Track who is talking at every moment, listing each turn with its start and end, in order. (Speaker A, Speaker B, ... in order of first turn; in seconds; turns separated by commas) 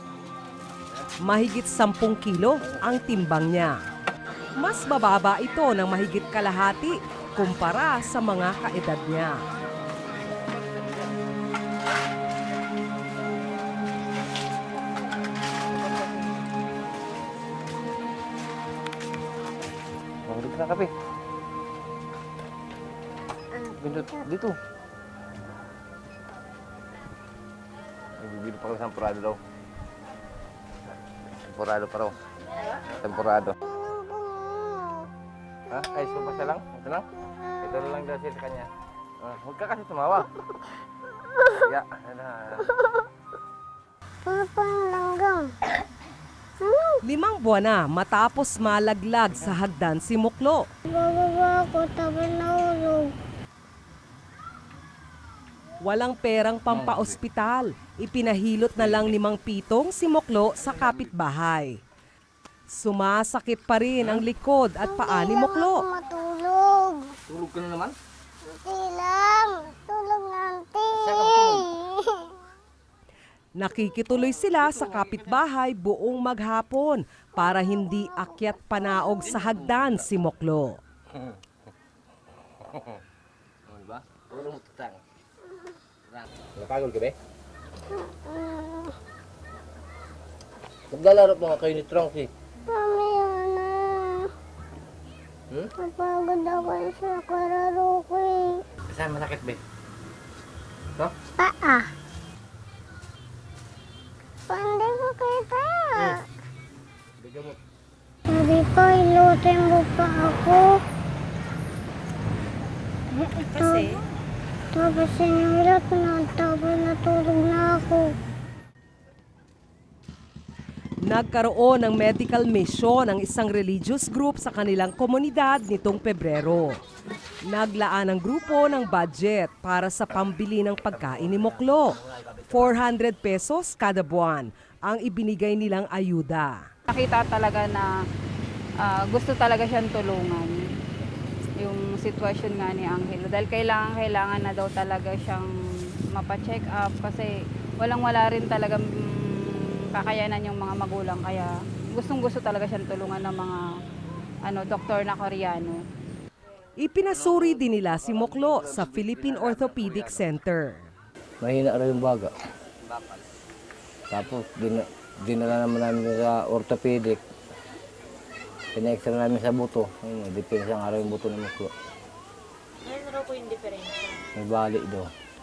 Speaker A: 1.2-3.8, Speaker A: 4.6-9.4, Speaker B: 20.3-20.9, Speaker C: 23.5-24.3, Speaker B: 23.8-24.6, Speaker B: 28.2-29.4, Speaker B: 31.2-32.1, Speaker B: 32.7-33.6, Speaker C: 33.6-35.1, Speaker B: 35.7-37.1, Speaker C: 37.2-37.7, Speaker B: 37.6-38.7, Speaker B: 39.2-40.3, Speaker B: 41.5-42.8, Speaker C: 44.2-45.5, Speaker C: 46.6-47.0, Speaker A: 47.0-50.6, Speaker B: 49.3-49.6, Speaker C: 50.9-53.1, Speaker A: 55.8-61.8, Speaker B: 56.7-57.2, Speaker B: 58.8-59.1, Speaker B: 60.6-61.1, Speaker A: 62.7-65.8, Speaker B: 64.0-64.2, Speaker C: 64.8-67.1, Speaker B: 67.3-67.9, Speaker C: 68.4-72.3, Speaker B: 70.9-71.7, Speaker A: 73.5-80.8, Speaker B: 74.3-75.4, Speaker C: 77.4-79.3, Speaker B: 79.2-80.0, Speaker B: 81.1-81.4, Speaker B: 82.6-83.0, Speaker B: 83.7-85.0, Speaker B: 86.1-87.2, Speaker C: 87.9-88.9, Speaker B: 90.9-92.3, Speaker C: 92.7-94.3, Speaker C: 95.8-98.6, Speaker B: 98.8-99.6, Speaker C: 101.4-101.9, Speaker C: 104.5-106.2, Speaker B: 107.2-107.6, Speaker C: 108.3-110.8, Speaker C: 113.1-113.9, Speaker D: 113.5-114.0, Speaker C: 114.7-118.1, Speaker A: 121.0-126.8, Speaker A: 127.5-136.6, Speaker B: 131.2-131.6, Speaker E: 136.9-138.0, Speaker E: 138.8-140.7, Speaker E: 141.6-153.7, Speaker E: 154.4-155.8, Speaker A: 156.8-160.8, Speaker B: 157.1-160.3, Speaker B: 161.4-163.2, Speaker B: 164.1-167.2, Speaker B: 168.7-171.7, Speaker D: 172.8-174.2, Speaker B: 174.3-175.1